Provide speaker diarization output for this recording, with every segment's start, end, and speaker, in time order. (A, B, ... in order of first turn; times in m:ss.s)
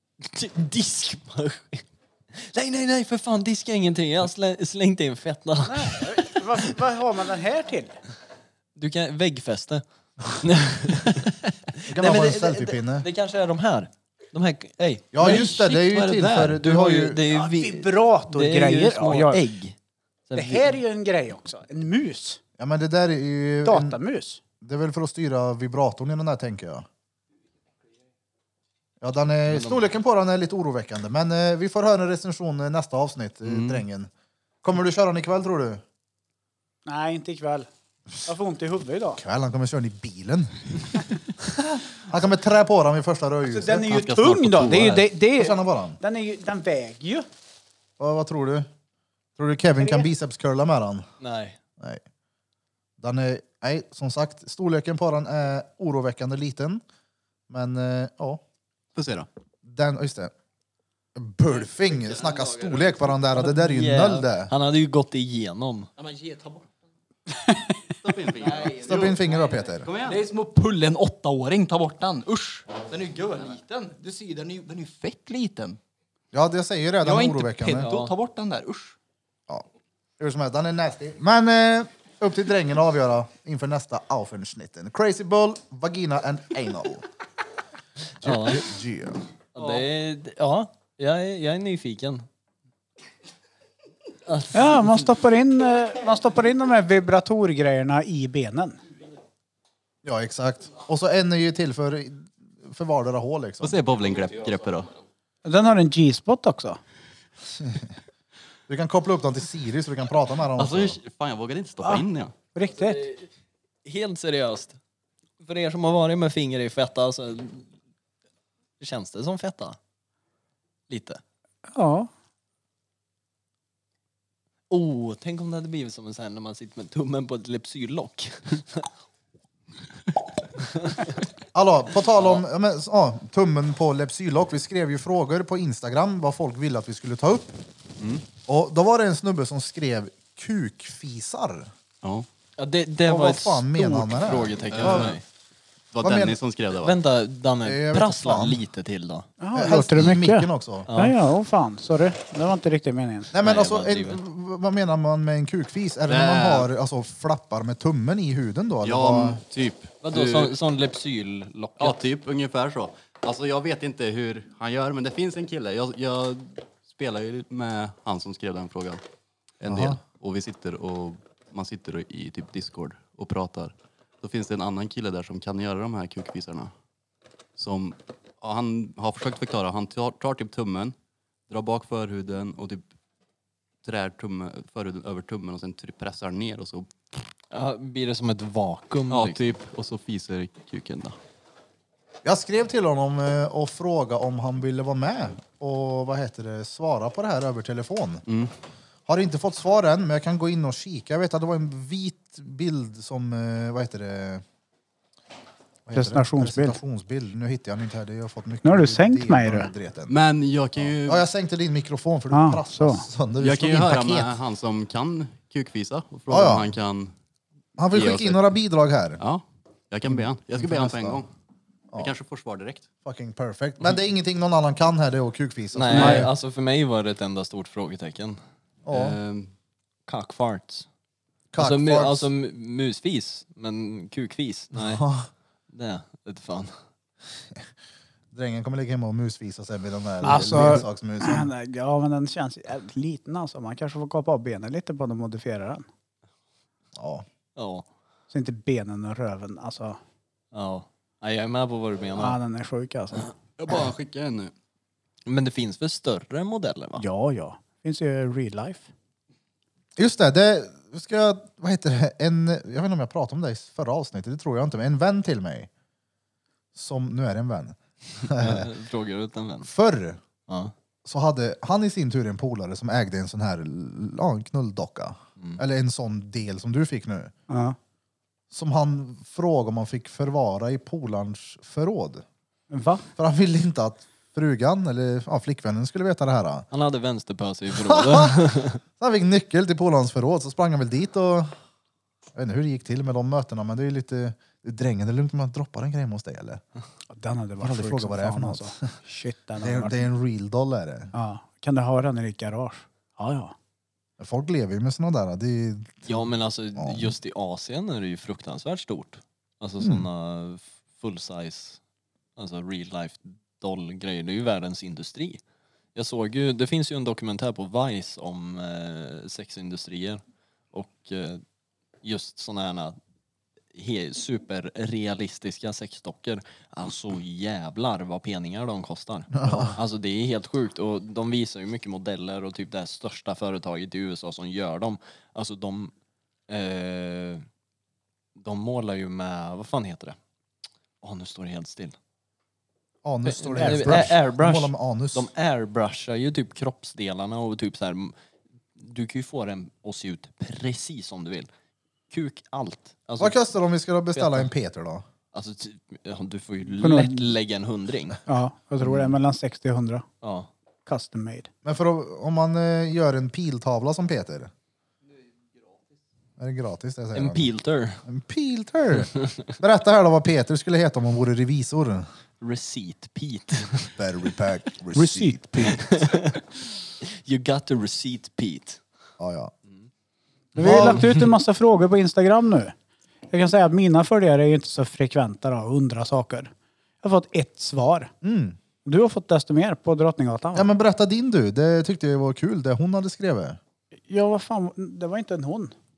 0:00.2-0:06.3 A
0:05.6-0:08.0 B
0:08.8-0:19.8 A
0:11.9-0:13.0 C
0:15.1-0:17.2 C
0:17.3-0:19.4 B
0:20.3-0:20.8 A
0:20.3-0:22.4 B
0:22.6-0:24.0 C
0:23.6-0:24.4 B
0:24.6-0:26.8 C
0:29.0-0:34.1 C
0:29.5-0:29.8 A
0:33.4-0:33.8 D
0:34.6-0:35.8 C
0:36.8-0:37.7 B
0:38.2-0:39.2 B
0:39.2-0:43.9 C
0:43.5-0:47.2 B
0:43.8-0:45.1 D
0:45.4-0:46.0 C
0:48.0-0:48.7 C
0:49.4-0:51.0 C
0:51.2-0:51.6 A
0:53.0-0:56.8 C
0:57.5-0:58.4 C
0:59.0-0:59.3 D
0:59.6-1:00.3 C
1:01.2-1:04.5 C
1:02.1-1:02.8 E
1:03.3-1:05.9 A
1:06.0-1:06.7 E
1:07.9-1:09.2 D
1:08.4-1:15.8 E
1:08.8-1:09.9 C
1:09.8-1:10.2 D
1:16.3-1:17.9 C
1:17.0-1:19.0 E
1:17.8-1:18.1 A
1:20.2-1:27.0 C
1:28.2-1:28.7 A
1:28.2-1:29.2 C
1:29.5-1:32.2 A
1:34.3-1:34.9 A
1:34.5-1:38.8 B
1:40.0-1:43.8 C
1:43.6-1:44.9 D
1:45.4-1:46.8 B
1:48.7-1:51.0 C
1:50.6-1:52.3 D
1:52.5-1:53.0 B
1:52.8-1:53.2 A
1:53.8-1:54.8 A
1:55.4-1:57.6 A
1:58.8-1:59.8 A
2:00.9-2:01.2 A
2:01.7-2:02.1 B
2:04.7-2:08.9 A
2:11.5-2:17.5 C
2:18.0-2:18.2 D
2:18.5-2:21.7 C
2:22.6-2:25.2 A
2:23.1-2:25.2 C
2:24.7-2:25.2 D
2:25.9-2:27.0 D
2:26.0-2:26.4 C
2:26.8-2:29.3 A
2:27.6-2:28.6 C
2:29.4-2:33.3 B
2:29.5-2:30.9 C
2:30.9-2:31.2 A
2:33.3-2:39.4 C
2:33.4-2:34.2 A
2:36.1-2:36.7 D
2:38.8-2:40.5 D
2:40.0-2:42.0 A
2:41.8-2:49.0 D
2:49.6-2:56.7 D
2:49.7-2:50.0 C
2:57.6-3:00.9 D
3:01.5-3:02.8 D
3:03.8-3:06.9 D
3:07.5-3:09.4 A
3:09.1-3:11.2 D
3:12.2-3:18.2 C
3:19.1-3:24.4 C
3:25.8-3:30.1 C
3:25.9-3:26.8 B
3:28.6-3:29.7 B
3:30.1-3:31.2 D
3:31.0-3:34.3 C
3:32.3-3:33.0 B
3:33.4-3:37.1 D
3:36.3-3:36.7 C
3:37.8-3:39.2 C
3:37.9-3:38.5 D
3:39.2-3:41.3 D
3:40.1-3:41.2 C
3:42.0-3:42.8 D
3:43.0-3:46.3 C
3:45.7-3:48.4 A
3:45.9-3:46.2 B
3:48.9-3:49.2 C
3:48.9-3:49.5 D
3:50.1-3:50.9 A
3:51.5-3:52.3 C
3:51.6-3:55.0 A
3:54.8-3:55.3 C
3:55.7-3:56.8 A
3:58.3-4:01.5 C
4:00.2-4:05.8 B
4:07.0-4:07.2 C
4:07.6-4:07.8 A
4:08.3-4:10.0 B
4:10.5-4:12.4 A
4:12.2-4:13.3 B
4:13.6-4:14.5 D
4:15.2-4:17.0 A
4:17.0-4:18.9 B
4:20.0-4:25.7 C
4:26.7-4:28.7 C
4:28.3-4:29.7 A
4:29.6-4:30.2 C
4:30.5-4:30.7 A
4:31.0-4:37.3 C
4:37.5-4:37.8 B
4:38.5-4:42.2 C
4:42.7-4:43.0 B
4:43.2-4:46.7 C
4:46.7-4:48.8 A
4:47.7-4:48.4 C
4:49.0-4:51.5 C
4:52.3-4:56.6 C
4:57.1-5:00.0 B
4:57.6-4:58.9 C
4:59.6-5:01.1 C
5:01.1-5:03.5 B
5:04.2-5:07.1 C
5:06.0-5:11.8 A
5:12.4-5:15.4 A
5:15.9-5:20.2 A
5:20.7-5:21.4 A
5:22.0-5:23.0 A
5:23.7-5:35.9 A
5:29.4-5:29.8 C
5:36.5-5:37.4 A
5:38.4-5:40.2 A
5:41.0-5:42.0 A
5:43.0-5:45.3 C
5:43.3-5:48.1 A
5:43.6-5:44.1 B
5:48.8-5:51.5 A
5:52.1-5:53.3 A
5:53.2-5:55.0 C
5:54.1-5:54.5 A
5:55.3-5:58.2 A
5:56.8-5:57.3 B
5:58.3-6:00.0 B
6:00.2-6:00.5 A
6:00.8-6:01.5 B
6:01.6-6:04.5 C
6:06.4-6:07.5 C
6:07.1-6:08.0 A
6:08.0-6:12.1 C
6:12.4-6:13.9 A
6:14.0-6:15.9 C
6:14.9-6:15.8 B
6:15.7-6:16.4 A
6:17.0-6:18.8 A
6:19.2-6:19.5 C
6:20.6-6:21.0 C
6:20.6-6:22.7 B
6:20.6-6:21.0 A
6:23.3-6:26.5 B
6:27.0-6:28.1 B
6:28.2-6:28.6 C
6:28.8-6:30.7 B
6:30.5-6:33.6 C
6:34.1-6:35.7 B